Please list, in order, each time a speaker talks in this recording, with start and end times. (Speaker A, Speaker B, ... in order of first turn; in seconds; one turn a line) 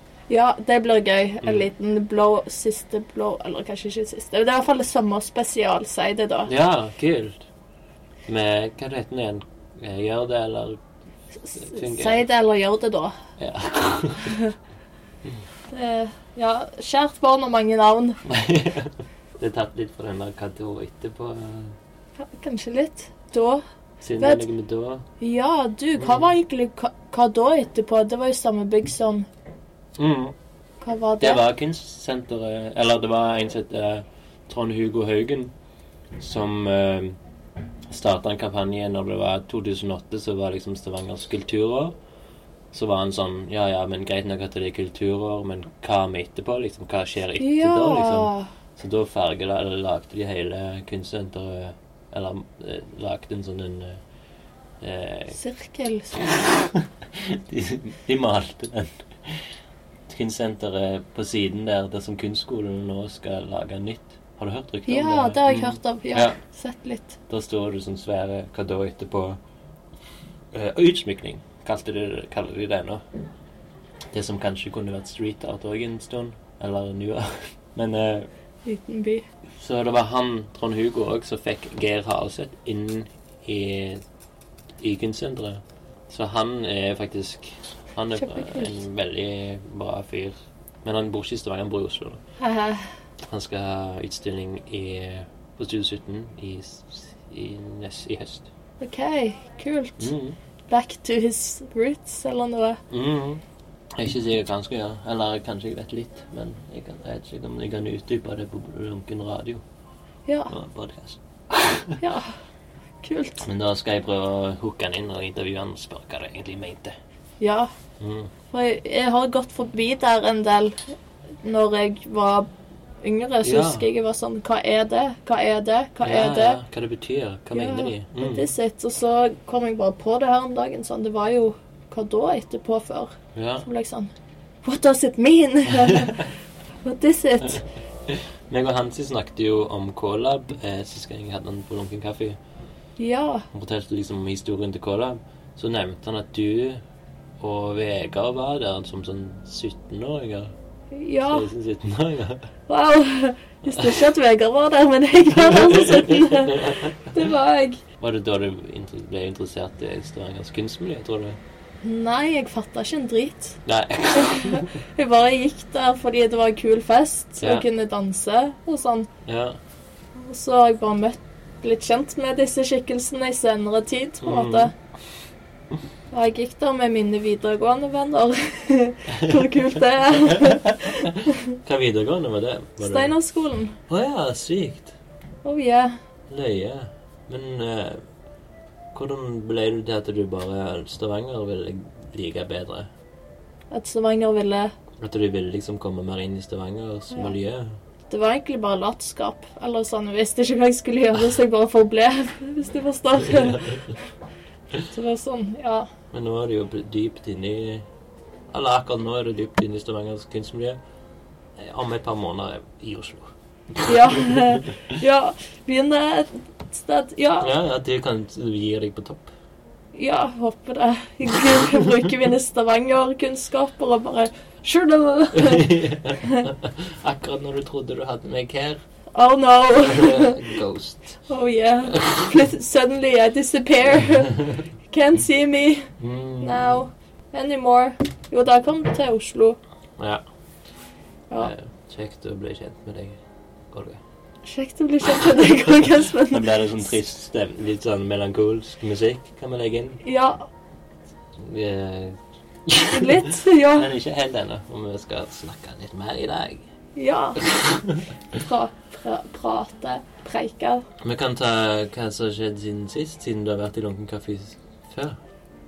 Speaker A: 0.3-6.5
Speaker B: 6.5-7.4
Speaker B: 8.3-10.8
Speaker A: 11.4-13.1
Speaker B: 11.6-12.2
Speaker B: 13.4-14.3
Speaker A: 14.2-14.5
Speaker A: 15.7-18.2
Speaker B: 18.3-21.7
Speaker A: 22.2-23.6
Speaker B: 24.0-25.0
Speaker A: 24.2-24.5
Speaker A: 25.2-29.3
Speaker B: 26.0-26.2
Speaker B: 30.0-30.3
Speaker A: 30.8-31.4
Speaker B: 31.2-35.5
Speaker B: 36.2-37.2
Speaker B: 37.9-41.9
Speaker B: 42.7-54.0
Speaker A: 47.4-48.5
Speaker B: 54.8-55.3
Speaker A: 55.3-56.4
Speaker B: 56.3-59.4
Speaker B: 60.1-66.3
Speaker A: 64.9-67.2
Speaker B: 67.3-69.4
Speaker B: 70.5-73.0
Speaker B: 74.1-78.3
Speaker A: 78.6-79.2
Speaker B: 79.6-84.0
Speaker B: 84.8-92.2
Speaker A: 88.2-88.8
Speaker A: 92.4-92.9
Speaker B: 93.2-98.5
Speaker A: 98.8-100.1
Speaker B: 100.0-100.3
Speaker A: 100.7-102.8
Speaker B: 102.9-103.4
Speaker B: 104.0-109.6
Speaker B: 110.5-112.0
Speaker A: 112.0-112.3
Speaker A: 113.0-113.5
Speaker B: 113.4-116.9
Speaker A: 117.4-117.7
Speaker B: 118.0-118.3
Speaker A: 118.5-120.9
Speaker A: 121.4-122.5
Speaker A: 123.0-126.6
Speaker B: 123.4-123.8
Speaker B: 126.0-128.4
Speaker A: 127.5-134.1
Speaker B: 133.3-133.7
Speaker A: 134.6-136.2
Speaker B: 135.9-136.2
Speaker A: 136.8-137.6
Speaker B: 138.1-142.4
Speaker A: 143.0-143.4
Speaker B: 143.5-146.8
Speaker B: 147.4-150.5
Speaker A: 150.9-151.4
Speaker B: 151.3-152.5
Speaker A: 152.7-157.8
Speaker B: 153.8-154.0
Speaker B: 155.4-157.2
Speaker B: 158.0-161.4
Speaker A: 161.8-163.6
Speaker B: 163.7-164.7
Speaker A: 164.1-169.1
Speaker B: 169.2-169.6
Speaker A: 170.2-174.7
Speaker B: 174.2-174.7
Speaker A: 176.1-181.3
Speaker B: 180.3-181.1
Speaker B: 181.6-183.1
Speaker A: 182.8-183.7
Speaker B: 183.9-184.9
Speaker A: 185.4-186.0
Speaker B: 186.3-188.0
Speaker B: 188.9-192.9
Speaker A: 193.7-194.7
Speaker B: 195.0-197.8
Speaker A: 198.1-203.6
Speaker B: 203.3-203.7
Speaker A: 204.9-205.9
Speaker B: 206.1-207.8
Speaker B: 208.5-210.8
Speaker B: 211.6-213.3
Speaker A: 213.8-217.5
Speaker B: 217.4-219.3
Speaker A: 219.9-225.7
Speaker B: 225.3-228.8
Speaker A: 229.1-230.4
Speaker B: 229.8-231.2
Speaker A: 231.3-235.9
Speaker B: 231.9-232.3
Speaker B: 236.0-236.7
Speaker A: 236.4-239.6
Speaker B: 241.4-243.2
Speaker B: 243.7-244.0
Speaker A: 244.4-246.5
Speaker B: 246.3-250.0
Speaker A: 250.0-250.4
Speaker B: 251.4-256.6
Speaker A: 252.9-253.9
Speaker A: 256.9-257.5
Speaker B: 257.5-257.9
Speaker A: 258.4-260.8
Speaker B: 261.0-265.2